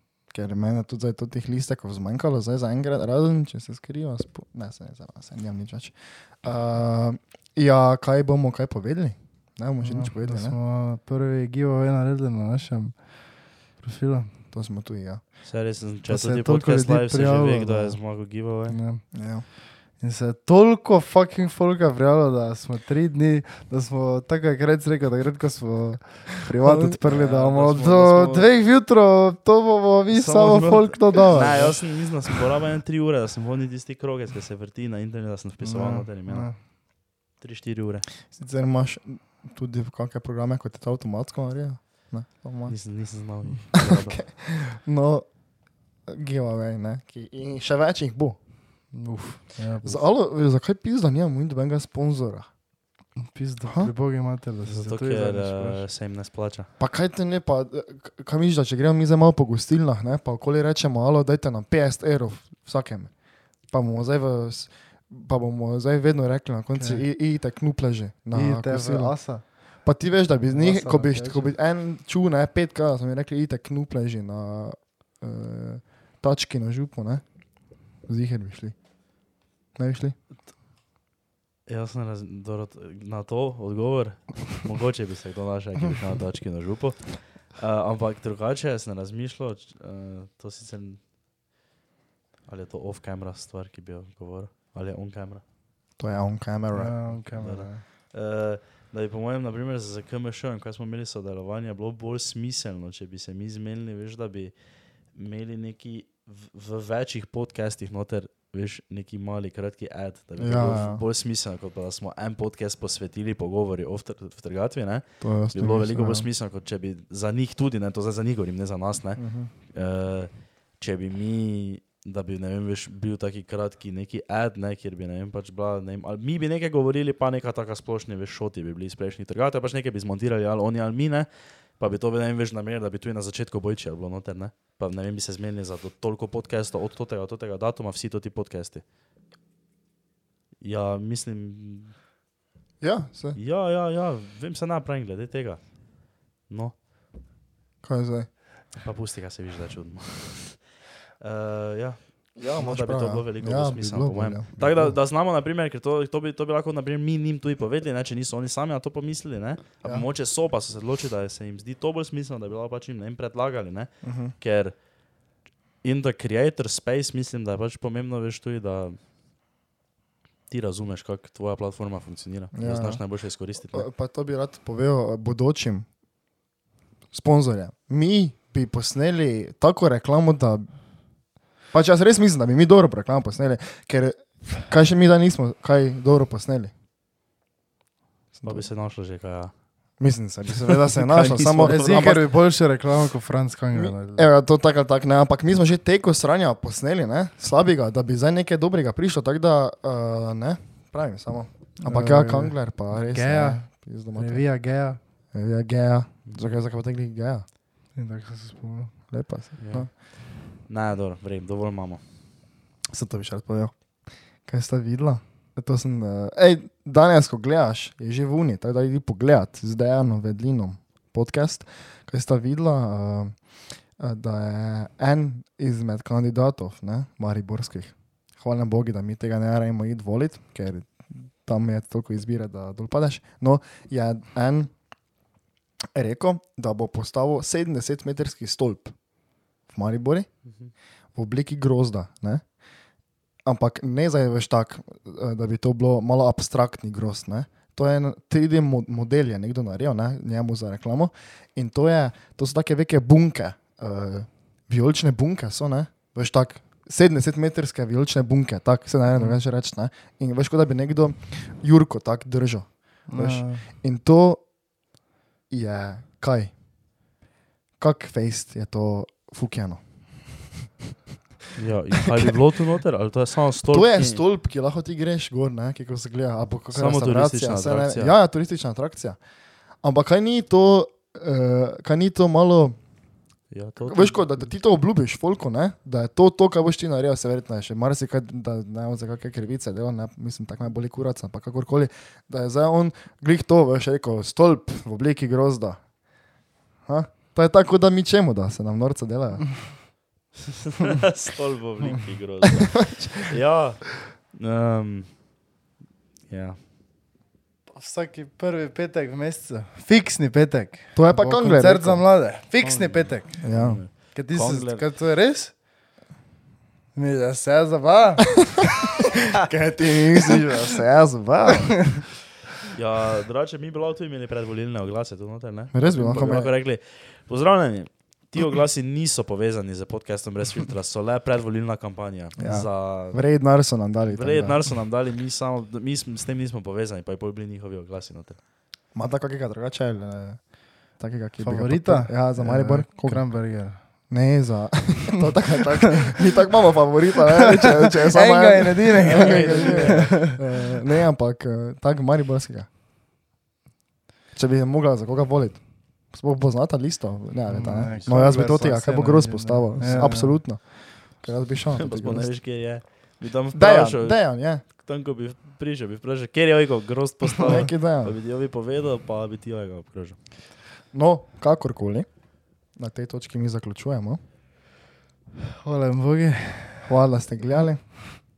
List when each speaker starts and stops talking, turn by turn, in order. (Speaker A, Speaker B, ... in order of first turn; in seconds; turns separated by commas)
Speaker A: 0.3-10.6, Speaker B: 9.8-14.3, Speaker A: 14.5-15.2, Speaker C: 15.4-18.8, Speaker B: 16.1-18.0, Speaker B: 18.7-19.1, Speaker A: 19.1-19.4, Speaker B: 19.9-31.8, Speaker A: 26.5-27.0, Speaker C: 27.1-28.5, Speaker C: 30.1-36.5, Speaker A: 31.4-31.7, Speaker B: 35.6-36.6, Speaker C: 37.4-38.1, Speaker A: 38.3-42.8, Speaker C: 42.7-44.2, Speaker A: 43.7-45.3, Speaker A: 46.1-48.4, Speaker B: 48.9-50.0, Speaker A: 49.8-52.5, Speaker B: 53.2-55.8, Speaker A: 53.7-53.9, Speaker C: 54.6-56.7, Speaker A: 56.8-63.1, Speaker A: 63.7-77.2, Speaker B: 66.8-67.0, Speaker B: 68.3-69.5, Speaker B: 70.5-71.5, Speaker A: 78.0-78.7, Speaker A: 79.8-80.2, Speaker C: 81.7-91.0, Speaker C: 92.5-95.4, Speaker A: 96.0-97.0, Speaker B: 96.7-97.8, Speaker C: 97.1-104.5, Speaker C: 105.1-131.3, Speaker A: 110.4-111.0, Speaker A: 115.2-116.3, Speaker A: 119.2-119.5, Speaker C: 131.8-138.8, Speaker C: 140.6-141.9, Speaker A: 142.8-143.4, Speaker C: 143.3-145.7, Speaker C: 146.5-146.7, Speaker A: 147.8-148.3, Speaker C: 148.8-150.6, Speaker C: 151.2-164.7, Speaker A: 152.4-154.9, Speaker A: 164.0-164.3, Speaker C: 165.8-169.0, Speaker C: 170.5-173.9, Speaker A: 172.5-173.0, Speaker A: 173.7-175.9, Speaker A: 177.1-180.7, Speaker A: 181.7-186.7, Speaker A: 188.3-188.7, Speaker C: 188.4-189.5, Speaker A: 190.0-192.3, Speaker C: 190.6-192.2, Speaker B: 191.6-194.3, Speaker A: 193.7-204.4, Speaker B: 201.8-205.0, Speaker A: 205.3-207.4, Speaker B: 207.9-208.9, Speaker A: 209.1-209.9, Speaker C: 209.6-209.9, Speaker C: 210.7-212.0, Speaker A: 212.9-213.7, Speaker A: 214.4-223.4, Speaker A: 224.0-234.7, Speaker A: 235.9-238.9, Speaker A: 239.7-240.3, Speaker A: 241.1-242.4, Speaker A: 243.4-264.4, Speaker B: 263.1-263.6, Speaker A: 265.5-266.5, Speaker A: 267.8-270.4, Speaker C: 271.6-274.2, Speaker A: 272.1-272.3, Speaker A: 273.7-279.2, Speaker C: 276.7-278.1, Speaker A: 279.8-282.8, Speaker C: 283.5-284.2, Speaker A: 283.8-295.8, Speaker A: 296.9-299.7, Speaker C: 300.5-305.1, Speaker A: 302.5-303.1, Speaker C: 306.3-306.6, Speaker B: 307.7-313.4, Speaker A: 310.9-312.1, Speaker C: 312.6-314.9, Speaker A: 313.4-313.8, Speaker B: 314.0-315.5, Speaker B: 316.9-318.5, Speaker A: 318.5-322.1, Speaker C: 322.7-333.2, Speaker A: 325.7-326.5, Speaker A: 332.4-334.6, Speaker C: 334.1-338.4, Speaker A: 338.9-343.3, Speaker B: 341.4-343.8, Speaker A: 344.1-352.7, Speaker B: 347.4-350.7, Speaker C: 349.0-350.3, Speaker A: 354.3-362.3, Speaker B: 357.5-360.4, Speaker C: 361.7-370.2, Speaker A: 363.5-364.6, Speaker A: 367.4-368.1, Speaker A: 370.9-372.1, Speaker A: 372.8-374.2, Speaker B: 375.4-376.9, Speaker A: 376.8-378.1